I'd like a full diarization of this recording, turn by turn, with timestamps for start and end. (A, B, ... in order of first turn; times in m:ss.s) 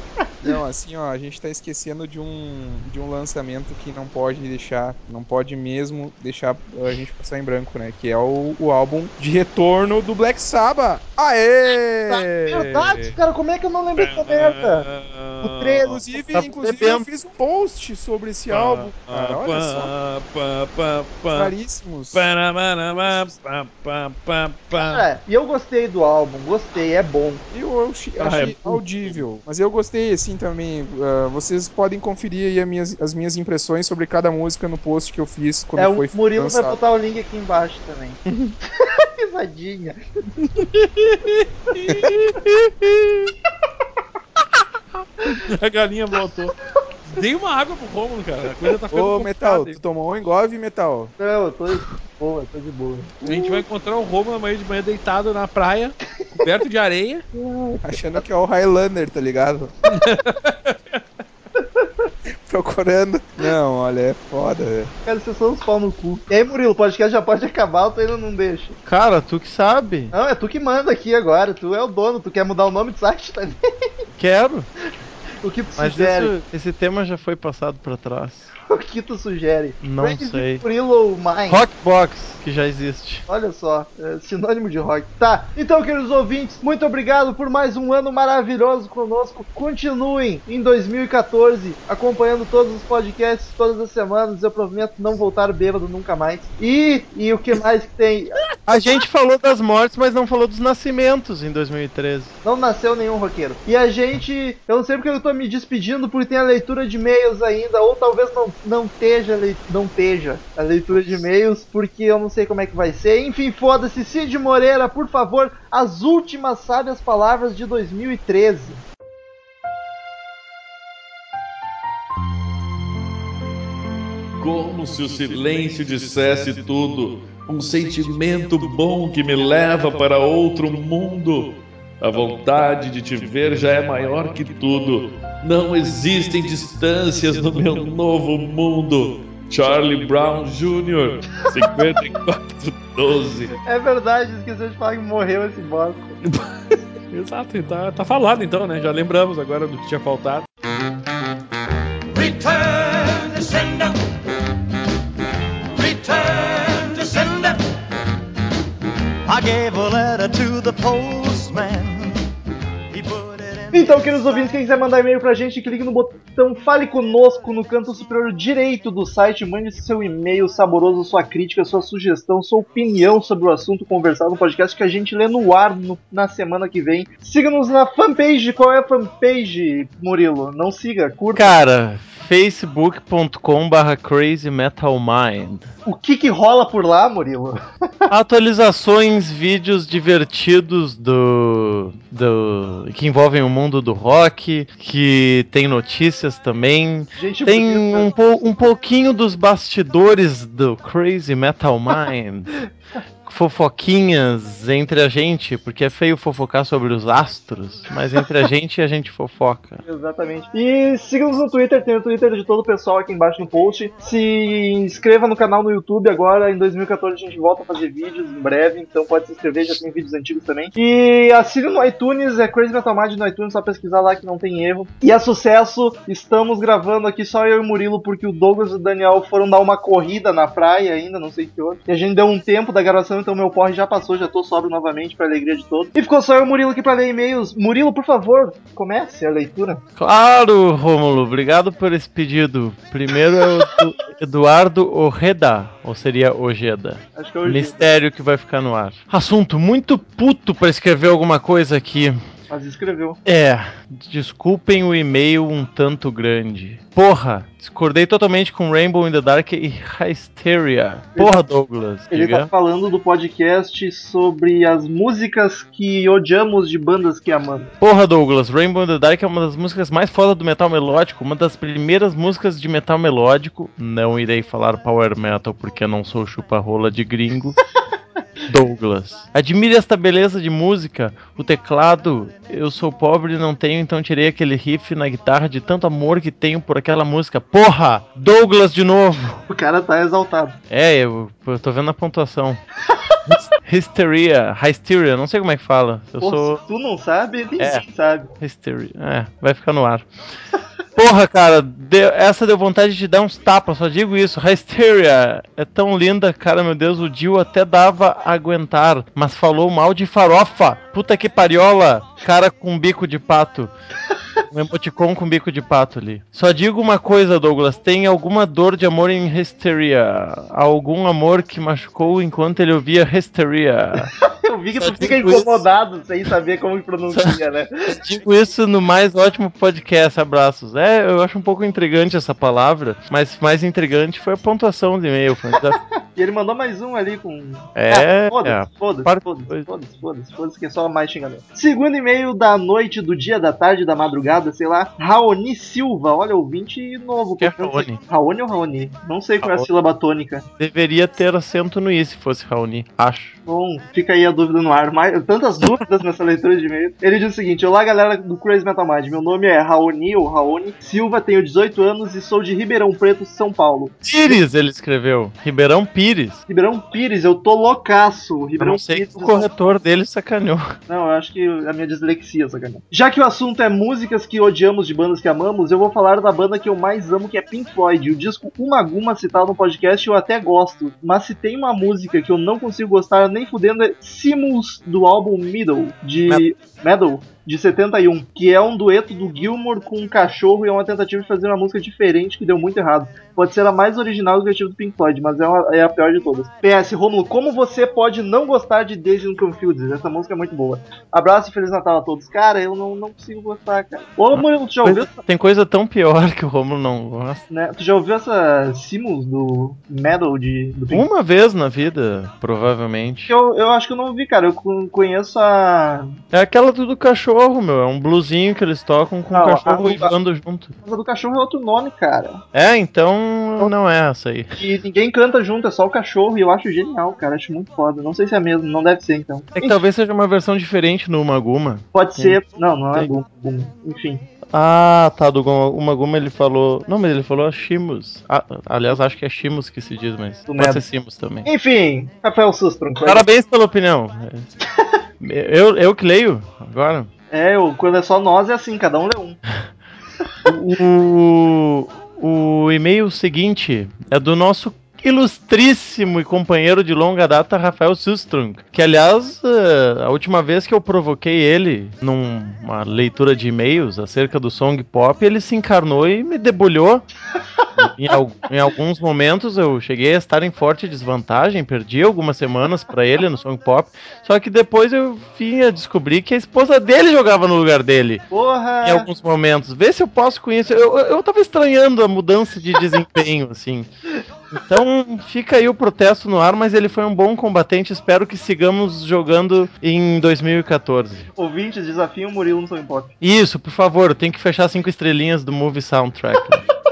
0:00.4-0:12.7 A
0:12.1-0:14.8 B
0:14.0-0:15.9 C
0:15.4-0:16.0 B
0:15.8-0:19.9 A
0:16.3-0:17.1 D
0:18.5-0:21.5 C
0:21.3-0:22.3 A
0:22.1-0:25.0 C
0:24.7-0:27.4 B
0:27.5-0:36.8 A
0:28.2-0:29.2 C
0:35.8-0:38.2 B
0:38.8-0:40.0 B
0:40.4-0:42.5 C
0:45.4-0:46.5 C
0:47.1-0:49.8 C
0:48.9-0:51.1 A
0:51.2-0:53.5 B
0:53.2-0:57.2 C
0:57.3-0:58.2 B
0:57.8-0:59.7 A
0:59.9-1:01.0 C
1:01.6-1:02.1 B
1:02.4-1:04.9 A
1:05.0-1:08.8 B
1:08.9-1:10.1 D
1:10.1-1:13.6 B
1:14.1-1:14.7 D
1:15.4-1:16.3 B
1:15.8-1:18.5 D
1:18.7-1:21.6 B
1:19.8-1:20.6 D
1:21.5-1:23.3 D
1:23.3-1:38.3 B
1:38.7-1:42.4 D
1:42.4-1:58.8 B
2:04.4-2:23.6 C
2:23.6-2:26.2 B
2:26.2-2:26.5 C
2:27.1-2:30.5 C
2:32.1-2:34.0 E
2:35.8-2:37.6 E
2:39.3-2:42.2 E
2:42.9-2:44.4 E
2:43.7-3:01.5 B
3:01.4-3:05.7 D
3:05.9-3:08.1 B
3:08.1-3:22.5 D
3:17.2-3:18.2 B
3:23.2-3:29.8 D
3:29.8-3:59.8 B
4:00.0-4:12.2 D
4:07.2-4:07.9 B
4:12.5-4:13.2 B
4:13.2-4:22.5 D
4:22.1-4:27.7 B
4:27.8-4:37.6 D
4:38.5-4:49.4 D
4:49.5-4:50.6 B
4:50.7-4:52.6 D
4:53.3-4:56.6 D
4:56.2-4:58.3 B
4:57.6-4:57.8 D
4:58.4-5:00.1 D
5:01.0-5:13.7 D
5:14.5-5:24.1 D
5:24.5-5:28.0 B
5:24.8-5:25.7 D
5:27.9-5:35.8 D
5:35.7-5:50.5 B
5:37.8-5:39.7 D
5:47.4-5:48.0 D
5:49.4-5:49.7 D
5:50.6-5:53.4 D
5:53.5-6:04.4 B
6:04.0-6:06.4 D
6:06.5-6:09.5 B
6:08.6-6:10.7 D
6:10.9-6:45.2 B
6:44.3-6:47.4 D
6:47.5-6:51.1 B
6:50.9-6:53.3 D
6:53.3-6:56.1 B
6:56.3-7:00.8 D
6:59.3-7:00.1 B
7:00.8-7:02.4 B
7:02.5-7:04.6 D
7:04.6-7:09.8 B
7:09.6-7:12.4 D
7:11.9-7:14.3 B
7:14.5-7:21.5 D
7:20.5-7:20.8 B
7:21.4-7:23.2 B
7:23.0-7:24.5 D
7:25.2-7:27.1 D
7:27.3-7:29.4 B
7:30.4-7:47.0 D
7:47.8-7:58.2 D
7:58.3-7:59.1 B
7:58.8-8:03.9 D
8:04.5-8:11.3 D
8:11.4-8:13.1 B
8:13.2-8:16.6 D